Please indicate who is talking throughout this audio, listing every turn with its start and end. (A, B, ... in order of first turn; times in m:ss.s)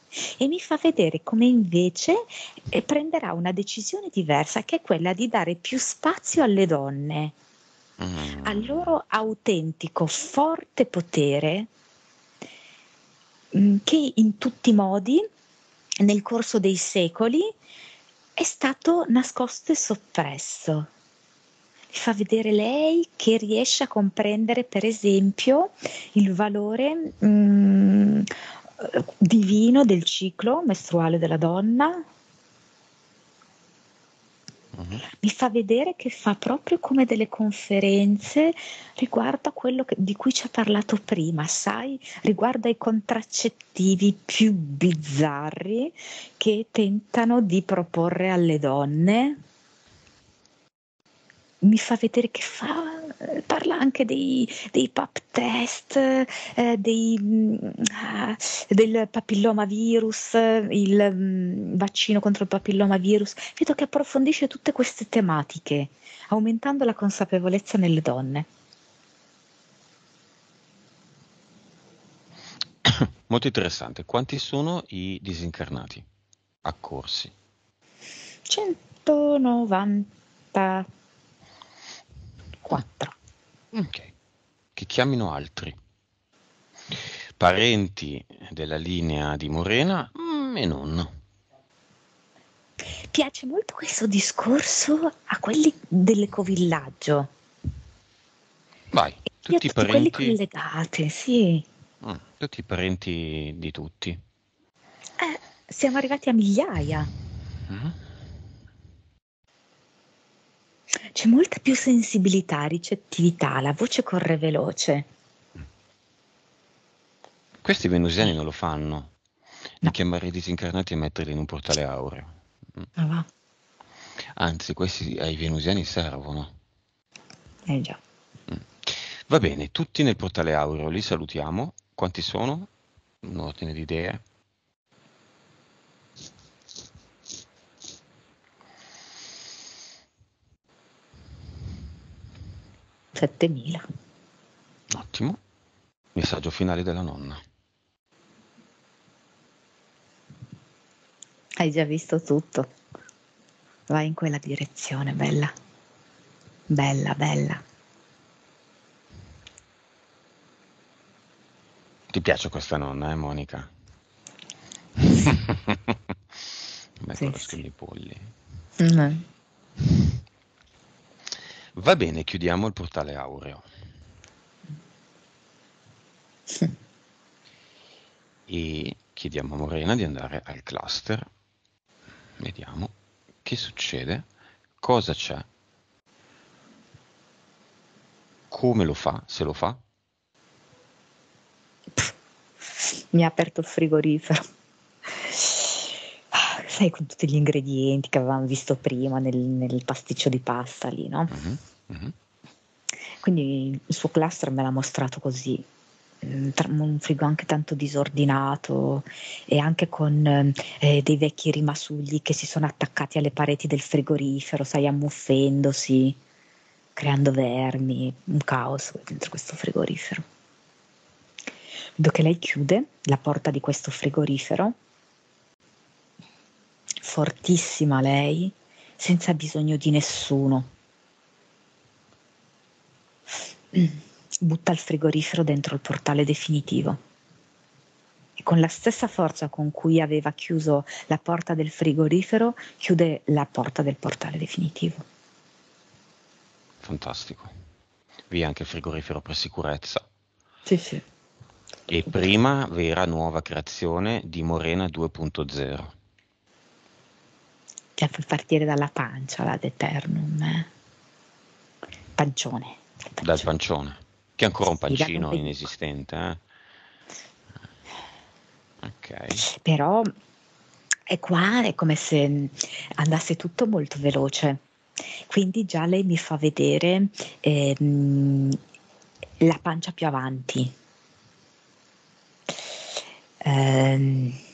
0:00.2-0:07.3 A
0:08.0-0:08.9 B
0:08.4-0:11.7 A
0:13.5-0:15.3 A
0:16.0-0:17.5 A
0:18.4-0:20.9 A
0:21.9-0:32.0 A
0:34.7-0:35.0 B
0:35.2-0:49.4 A
0:51.6-1:08.5 A
1:12.8-1:16.0 B
1:16.6-1:17.3 B
1:18.5-1:20.9 A
1:22.6-1:23.1 A
1:23.7-1:24.1 B
1:24.7-1:25.7 B
1:26.9-1:31.1 B
1:33.1-1:37.3 A
1:38.9-1:40.4 B
1:39.5-1:41.6 A
1:42.0-1:44.2 B
1:45.2-1:47.1 A
1:47.7-1:48.0 B
1:51.1-1:55.1 A
1:57.6-1:59.1 B
1:59.8-2:02.9 B
2:03.0-2:03.2 A
2:04.4-2:06.5 B
2:07.7-2:08.0 A
2:08.5-2:12.7 B
2:13.2-2:14.2 B
2:23.1-2:23.8 A
2:24.9-2:25.4 B
2:26.1-2:27.4 B
2:31.6-2:32.7 A
2:33.9-2:35.5 A
2:36.7-2:37.6 A
2:42.1-2:43.7 B
2:45.0-2:46.1 B
2:47.0-2:48.3 B
2:47.2-2:47.6 A
2:48.8-2:49.2 A
2:51.7-2:53.6 B
2:58.5-3:01.3 B
3:02.4-3:02.9 B
3:03.4-3:04.2 B
3:04.8-3:05.5 B
3:08.5-3:09.8 B
3:12.8-3:14.4 A
3:15.1-3:21.4 A
3:21.3-3:22.1 B
3:23.2-3:25.6 A
3:26.2-3:36.2 A
3:37.0-3:40.2 A
3:42.0-3:44.7 A
3:47.0-3:50.7 A
3:53.7-3:57.0 A
3:58.4-4:05.0 A
4:06.8-4:07.5 B
4:08.3-4:10.0 B
4:10.7-4:11.0 A
4:11.9-4:15.9 B
4:18.0-4:20.7 A
4:22.2-4:23.3 A
4:23.2-4:26.4 B
4:24.9-4:25.5 A
4:28.8-4:29.4 B
4:29.4-4:30.1 A
4:31.1-4:34.6 A
4:35.3-4:38.6 A
4:39.4-4:40.7 A
4:43.4-4:44.4 A